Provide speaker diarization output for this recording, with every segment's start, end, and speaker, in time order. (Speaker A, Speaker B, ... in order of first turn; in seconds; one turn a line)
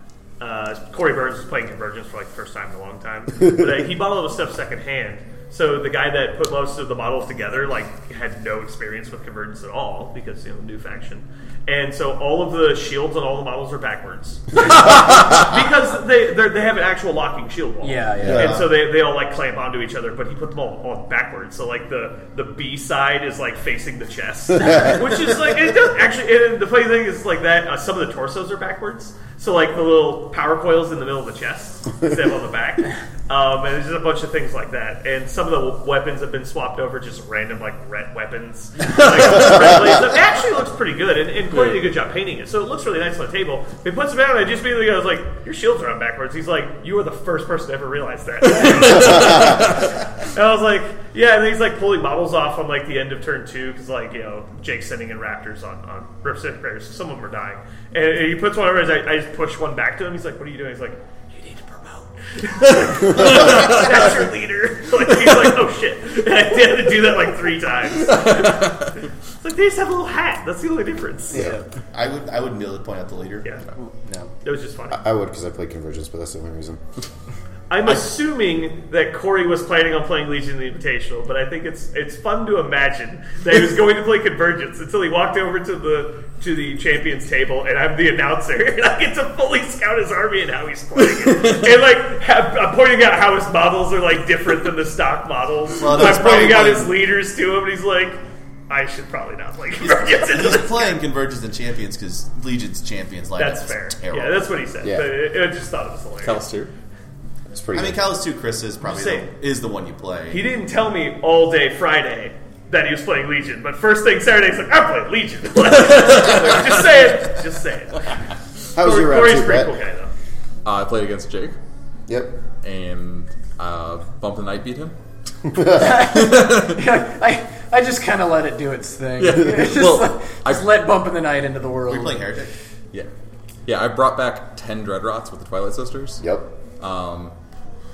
Speaker A: 0.4-68.8
Speaker B: 17.8-18.6
Speaker C: 18.2-18.5
Speaker D: 18.3-18.6
Speaker B: 48.5-48.9
Speaker E: 63.1-63.8
Speaker E: 68.0-68.9
Speaker A: 69.4-71.5
Speaker C: 71.3-71.6
Speaker B: 71.3-71.6
Speaker D: 71.9-73.5
Speaker B: 74.0-74.3
Speaker A: 74.4-75.0
Speaker C: 74.9-76.8
Speaker A: 77.7-101.0
Speaker D: 95.8-96.9
Speaker D: 99.8-104.5
Speaker A: 103.4-106.4
Speaker C: 104.8-105.1
Speaker E: 106.2-106.7
Speaker C: 107.5-108.1
Speaker D: 107.7-110.4
Speaker A: 108.8-109.3
Speaker A: 110.3-118.2
Speaker C: 118.7-119.7
Speaker A: 118.8-120.1
Speaker E: 120.6-121.5
Speaker C: 122.1-122.4
Speaker E: 122.6-124.9
Speaker B: 125.7-132.3
Speaker E: 125.8-126.8
Speaker E: 129.2-130.7
Speaker D: 131.9-132.5
Speaker E: 133.7-136.2
Speaker C: 136.2-136.5
Speaker E: 136.8-137.3